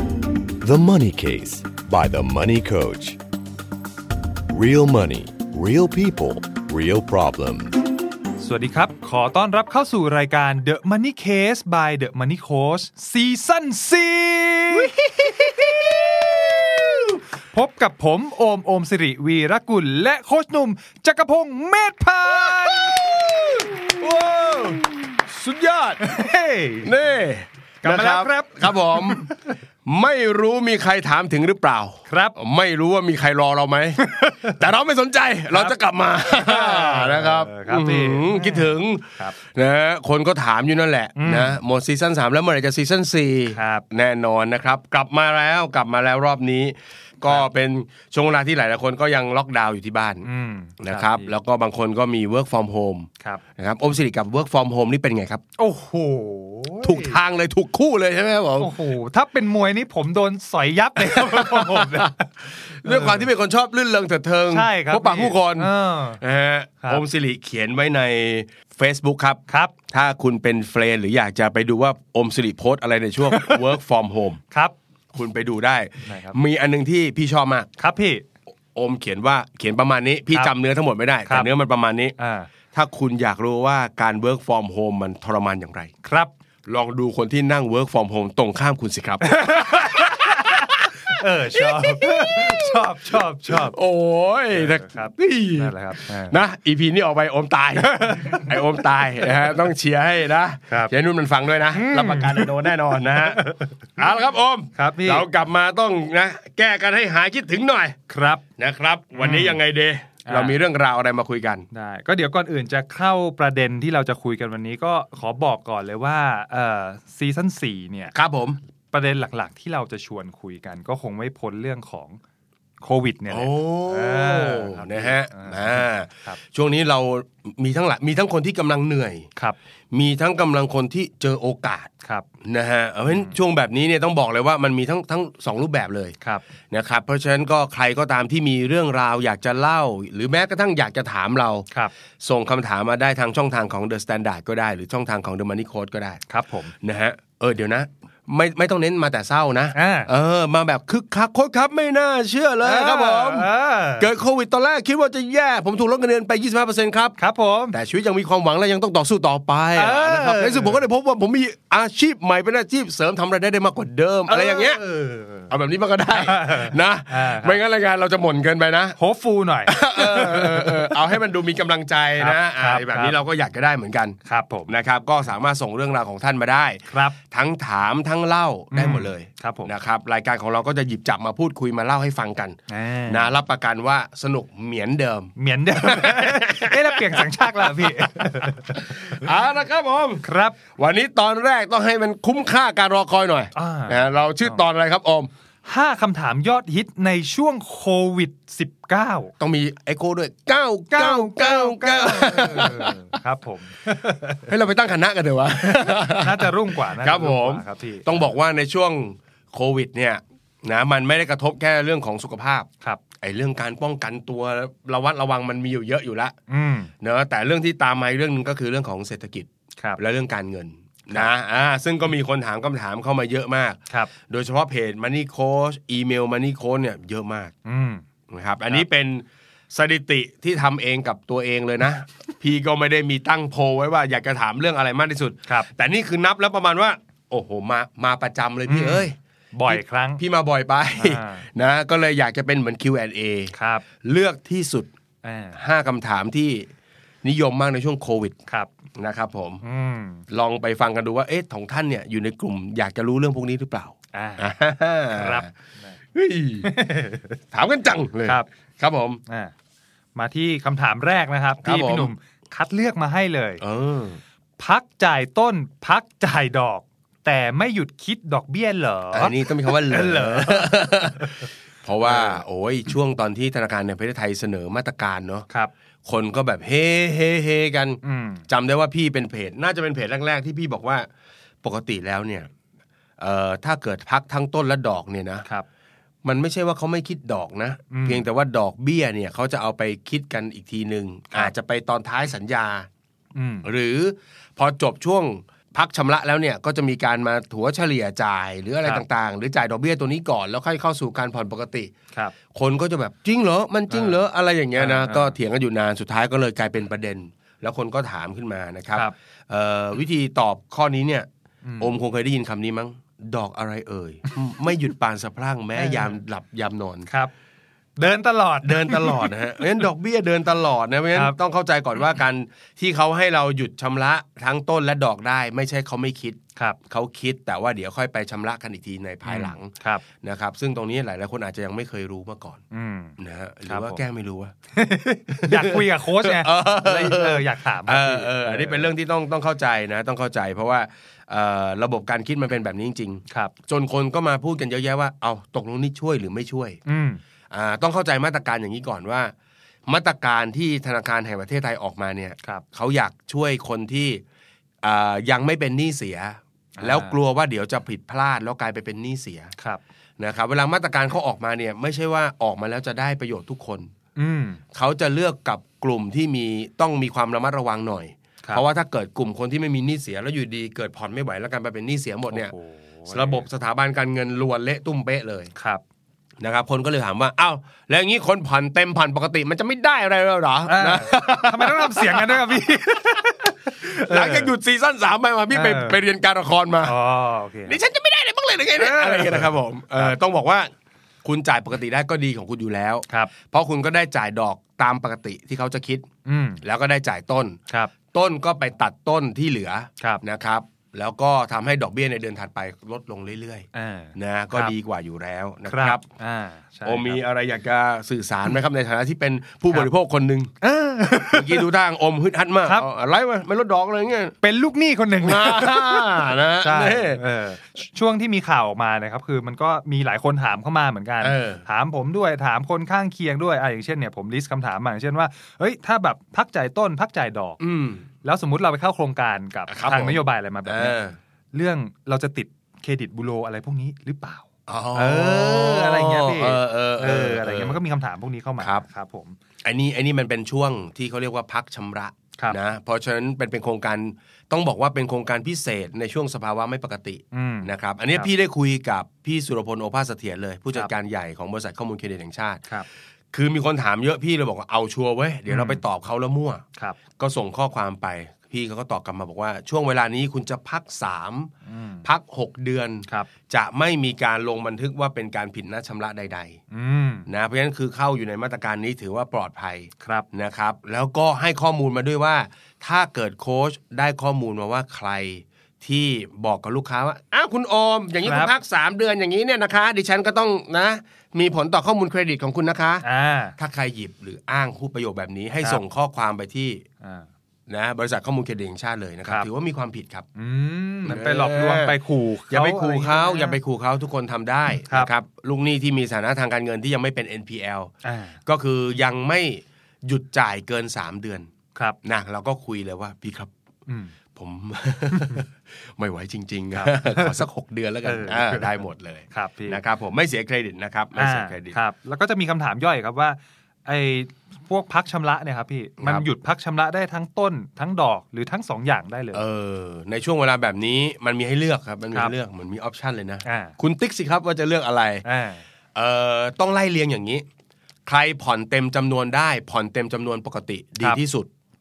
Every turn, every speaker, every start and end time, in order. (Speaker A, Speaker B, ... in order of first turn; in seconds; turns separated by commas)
Speaker A: 0.6-3.2, Speaker A: 4.5-7.8, Speaker B: 8.4-24.9, Speaker C: 15.2-15.9, Speaker C: 23.9-26.1, Speaker B: 26.0-26.9, Speaker C: 26.8-29.3, Speaker B: 27.8-29.5, Speaker C: 29.9-50.3, Speaker B: 32.1-32.4, Speaker B: 34.0-34.6, Speaker B: 36.3-39.4, Speaker B: 41.2-41.6, Speaker B: 43.5-43.9, Speaker B: 50.2-51.3, Speaker C: 50.8-55.4, Speaker B: 55.6-57.2, Speaker C: 56.8-58.8, Speaker B: 58.6-62.3, Speaker C: 61.0-74.4, Speaker B: 62.8-63.3, Speaker B: 64.5-66.2, Speaker B: 69.5-69.7, Speaker B: 73.2-73.6, Speaker C: 75.1-77.7, Speaker B: 76.1-76.4, Speaker B: 77.8-78.2, Speaker C: 78.8-82.2, Speaker B: 82.2-82.5, Speaker C: 82.7-85.9, Speaker B: 86.0-86.3, Speaker C: 86.7-108.0, Speaker B: 89.2-93.8, Speaker B: 94.5-96.4, Speaker B: 101.7-103.9, Speaker B: 104.8-105.3, Speaker B: 108.1-108.4, Speaker C: 108.6-111.7, Speaker B: 109.2-109.6, Speaker B: 110.3-110.6, Speaker B: 111.7-118.1, Speaker C: 118.1-118.6, Speaker B: 118.9-122.2, Speaker B: 122.8-126.4, Speaker C: 123.3-129.3, Speaker C: 129.9-131.9, Speaker C: 132.4-136.2, Speaker B: 133.1-133.3, Speaker B: 136.2-136.5, Speaker C: 136.7-141.7, Speaker C: 142.2-146.2, Speaker B: 146.3-146.7, Speaker C: 146.8-157.2, Speaker B: 149.7-150.1, Speaker B: 152.6-154.1, Speaker B: 157.2-157.8, Speaker C: 157.7-164.8, Speaker B: 159.8-160.8, Speaker B: 164.3-165.5, Speaker C: 165.5-169.0, Speaker B: 166.1-167.6, Speaker B: 169.0-171.2, Speaker C: 169.7-182.6, Speaker B: 172.2-173.2, Speaker B: 174.2-174.7, Speaker B: 176.9-177.2, Speaker B: 178.7-179.7, Speaker B: 182.7-183.3, Speaker C: 183.1-195.3, Speaker B: 185.4-189.3, Speaker B: 190.2-190.6, Speaker B: 193.6-194.6, Speaker B: 195.7-199.3, Speaker C: 199.4-203.2, Speaker B: 200.9-204.5, Speaker C: 204.4-216.4, Speaker B: 205.7-208.2, Speaker B: 216.5-216.9, Speaker C: 217.0-227.5, Speaker B: 227.7-228.0, Speaker C: 228.3-239.2, Speaker B: 238.7-240.2, Speaker C: 239.7-244.9, Speaker B: 241.0-241.4, Speaker B: 243.5-243.8, Speaker B: 245.2-245.6, Speaker C: 245.6-246.7, Speaker C: 247.2-248.4, Speaker C: 249.0-249.6, Speaker B: 249.6-250.2, Speaker C: 250.3-255.5, Speaker B: 254.1-254.5, Speaker B: 255.1-255.9, Speaker C: 256.1-256.7, Speaker B: 256.6-257.4, Speaker C: 257.5-259.2, Speaker B: 259.3-259.5, Speaker B: 260.1-263.6, Speaker C: 261.6-262.1, Speaker C: 263.6-264.2, Speaker B: 264.6-271.5, Speaker C: 269.1-275.5, Speaker B: 272.0-272.4, Speaker C: 276.1-281.1, Speaker B: 278.0-278.4, Speaker C: 281.6-282.5, Speaker C: 283.2-285.5, Speaker C: 286.2-292.9, Speaker B: 287.9-288.2, Speaker B: 293.3-293.7, Speaker C: 293.6-301.9, Speaker C: 302.5-311.3, Speaker B: 303.9-304.2, Speaker B: 304.8-305.4, Speaker B: 311.6-311.9, Speaker C: 311.8-317.1, Speaker B: 315.8-316.2, Speaker B: 317.1-317.3, Speaker B: 318.0-319.8, Speaker C: 318.6-332.6, Speaker B: 329.3-330.0, Speaker B: 332.7-334.0, Speaker C: 333.2-334.6, Speaker B: 334.8-338.9, Speaker C: 335.3-346.8, Speaker B: 343.3-343.5, Speaker B: 346.9-347.2, Speaker C: 347.5-349.3, Speaker C: 349.9-354.2, Speaker C: 354.8-359.5, Speaker B: 356.8-357.2, Speaker C: 360.2-363.9, Speaker B: 364.2-364.6, Speaker C: 364.7-372.5, Speaker B: 372.3-373.4, Speaker C: 373.1-375.5, Speaker B: 375.6-375.8, Speaker C: 376.4-382.6, Speaker B: 380.7-384.5, Speaker C: 383.8-387.0, Speaker B: 385.5-386.0, Speaker B: 386.8-387.8, Speaker C: 387.7-390.7, Speaker B: 388.8-390.2, Speaker C: 391.2-396.1, Speaker B: 396.2-396.6, Speaker C: 396.6-397.6, Speaker B: 397.7-397.9, Speaker C: 398.1-406.0, Speaker B: 403.7-404.7, Speaker B: 405.7-407.2, Speaker C: 406.9-410.6, Speaker B: 410.6-411.7, Speaker C: 411.2-414.4, Speaker B: 414.4-427.6, Speaker C: 415.2-417.2, Speaker C: 421.2-421.6, Speaker C: 427.6-428.1, Speaker B: 428.2-431.0, Speaker C: 429.7-431.2, Speaker B: 431.5-439.4, Speaker C: 434.7-437.8, Speaker C: 439.6-452.7, Speaker B: 447.3-448.3, Speaker C: 453.3-456.6, Speaker B: 455.5-455.8, Speaker C: 457.2-461.5, Speaker B: 461.7-462.1, Speaker C: 462.0-466.6, Speaker B: 466.7-467.3, Speaker C: 467.3-483.1, Speaker B: 470.0-470.3, Speaker B: 478.2-478.5, Speaker B: 483.0-483.6, Speaker C: 483.6-486.9, Speaker B: 487.0-487.3, Speaker C: 487.7-490.3, Speaker B: 490.4-493.6, Speaker C: 491.0-492.0, Speaker C: 492.5-497.9, Speaker B: 498.0-498.4, Speaker C: 498.4-501.5, Speaker C: 502.0-503.5, Speaker B: 503.9-504.1, Speaker C: 504.3-511.8, Speaker B: 505.1-505.4, Speaker B: 506.7-507.4, Speaker B: 508.0-509.8, Speaker B: 511.2-519.4, Speaker C: 516.0-516.3, Speaker C: 519.3-525.2, Speaker B: 523.5-523.8, Speaker B: 525.2-525.6, Speaker C: 526.0-527.5, Speaker C: 528.1-531.5